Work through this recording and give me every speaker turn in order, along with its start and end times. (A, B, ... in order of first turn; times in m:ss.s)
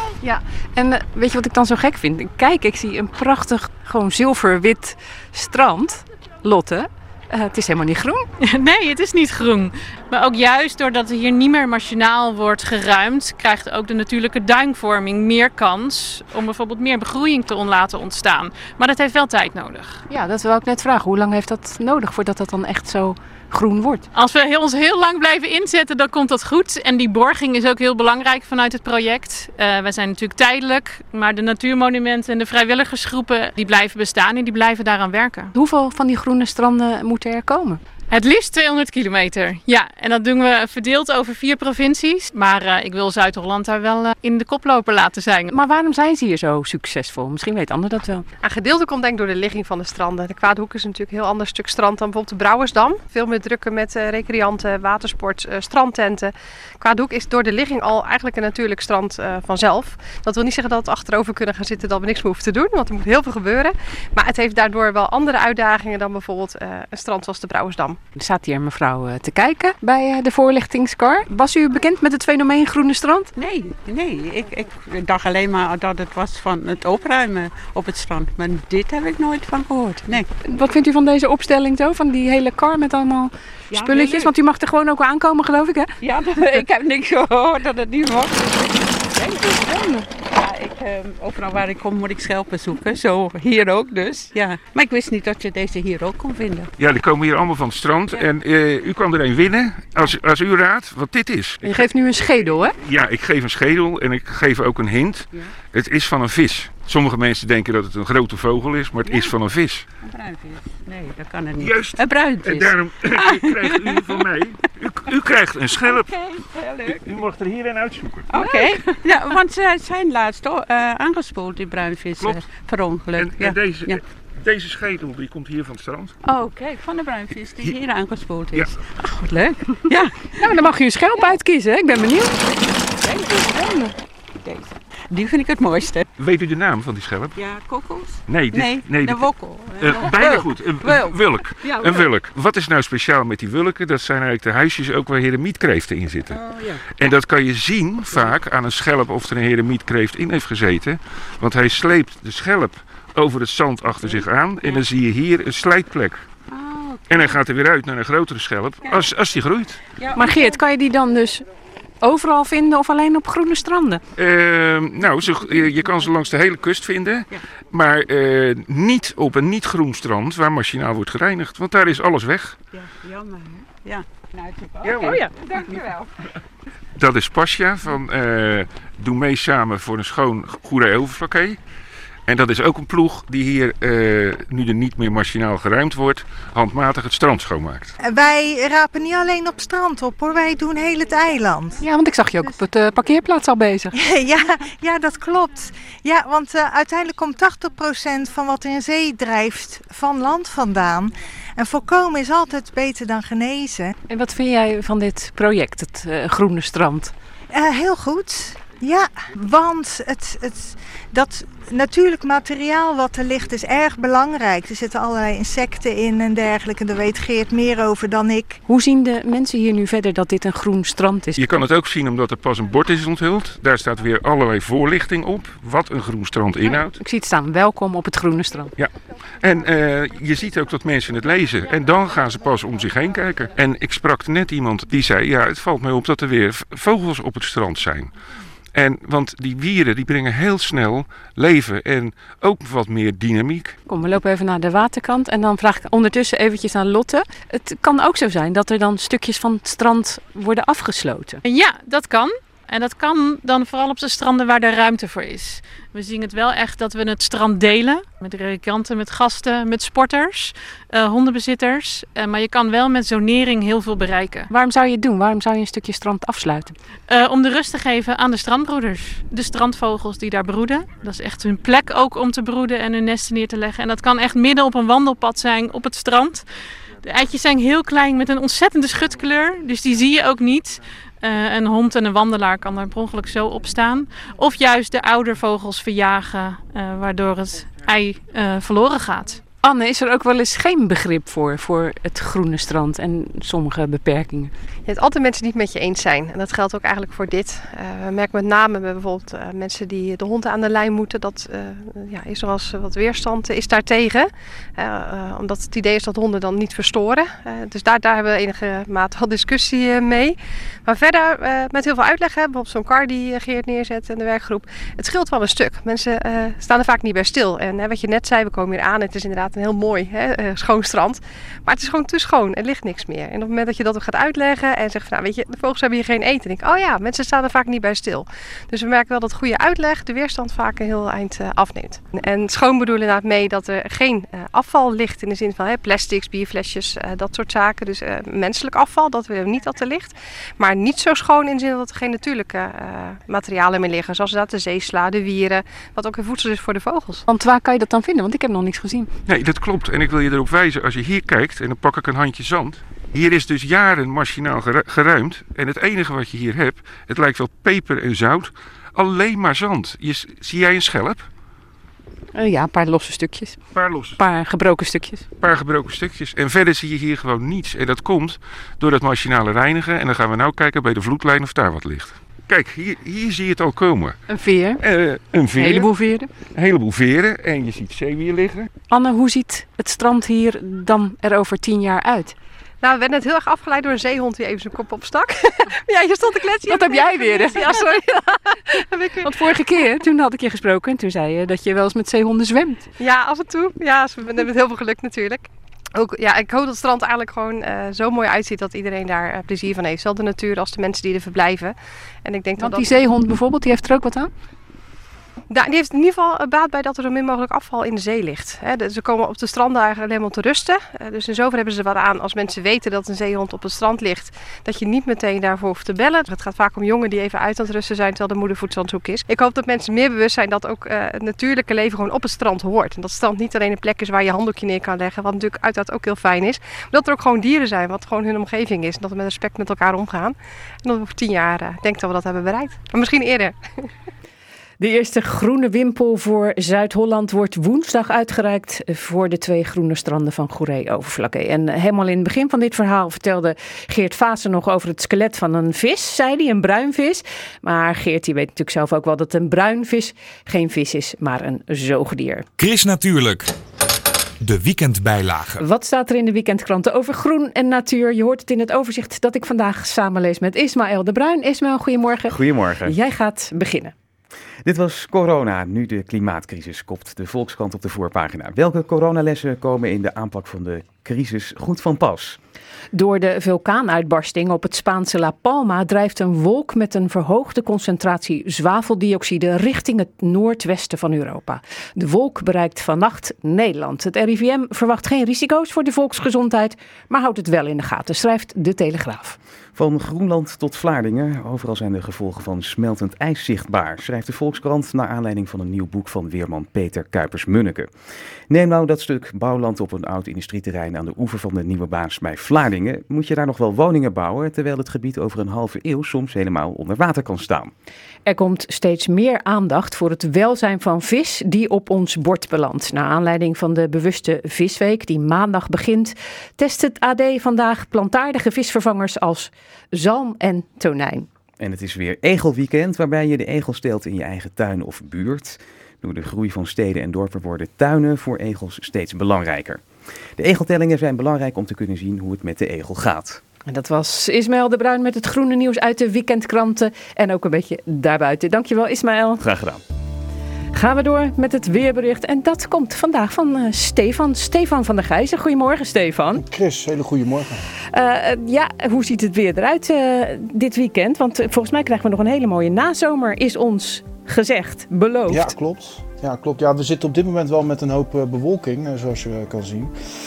0:00.2-0:08.3 A
0:08.4-0:20.0 B
0:20.1-0:24.1 A
0:24.1-0:35.5 B
0:35.5-0:37.8 A
0:38.1-0:45.5 B
0:45.5-0:48.3 A
0:48.4-1:08.0 C
1:08.2-1:13.3 A
1:13.4-1:20.3 D
1:20.4-1:26.6 A
1:23.7-1:24.3 D
1:26.0-1:29.5 D
1:29.3-1:30.0 A
1:30.3-1:36.7 D
1:36.8-1:41.8 E
1:41.6-1:42.7 A
1:42.8-1:49.8 E
1:49.0-1:49.3 D
1:50.0-1:54.2 D
1:51.6-1:56.1 E
1:55.8-1:57.2 D
1:56.9-1:58.3 E
1:58.3-2:04.0 D
2:03.2-2:06.2 E
2:06.2-2:10.5 D
2:10.4-2:12.4 A
2:13.0-2:13.9 D
2:14.4-2:16.1 D
2:16.2-2:17.4 E
2:17.4-2:22.1 D
2:18.3-2:19.2 E
2:19.8-2:36.3 E
2:26.3-2:26.8 D
2:34.1-2:34.8 D
2:36.5-2:37.4 D
2:37.1-2:39.8 E
2:40.0-2:40.6 D
2:40.2-2:41.4 A
2:42.0-2:44.0 A
2:44.2-2:52.6 E
2:52.7-2:56.1 D
2:54.8-2:55.3 E
2:57.0-3:01.6 E
3:02.3-3:07.9 E
3:08.0-3:11.8 F
3:11.8-3:13.9 A
3:14.0-3:23.9 F
3:24.1-3:27.1 A
3:27.5-3:38.6 F
3:38.7-3:41.4 A
3:41.4-3:47.0 E
3:46.6-3:48.7 A
3:48.8-3:58.1 E
3:58.7-4:03.8 E
4:03.9-4:11.4 A
4:11.4-4:24.5 B
4:24.5-4:26.8 A
4:27.1-4:36.5 B
4:37.0-4:49.4 B
4:49.6-4:54.5 A
4:54.9-5:47.2 C
5:47.3-5:49.1 A
5:49.3-6:01.3 E
6:02.4-6:03.6 A
6:03.7-6:04.2 E
6:04.2-6:05.2 A
6:05.4-6:14.2 E
6:14.3-6:14.8 A
6:14.8-6:15.9 E
6:15.6-6:16.3 A
6:16.5-6:18.7 E
6:18.9-6:22.4 A
6:22.8-6:29.5 C
6:26.7-6:28.6 A
6:29.2-6:32.9 A
6:33.0-6:43.0 C
6:42.6-6:44.3 A
6:45.5-7:13.6 C
7:14.8-7:32.5 A
7:32.6-7:33.5 G
7:34.4-7:35.6 G
7:35.6-7:43.9 A
7:42.3-7:43.0 H
7:44.6-7:52.4 H
7:52.9-8:09.4 A
8:09.8-8:17.9 H
8:18.5-8:27.7 H
8:28.3-8:41.3 A
8:41.6-8:49.8 H
8:50.4-8:53.4 H
8:53.7-8:59.4 A
8:59.4-8:59.8 H
9:00.7-9:06.4 A
9:06.4-9:07.6 I
9:07.9-9:15.5 A
9:15.3-9:19.9 I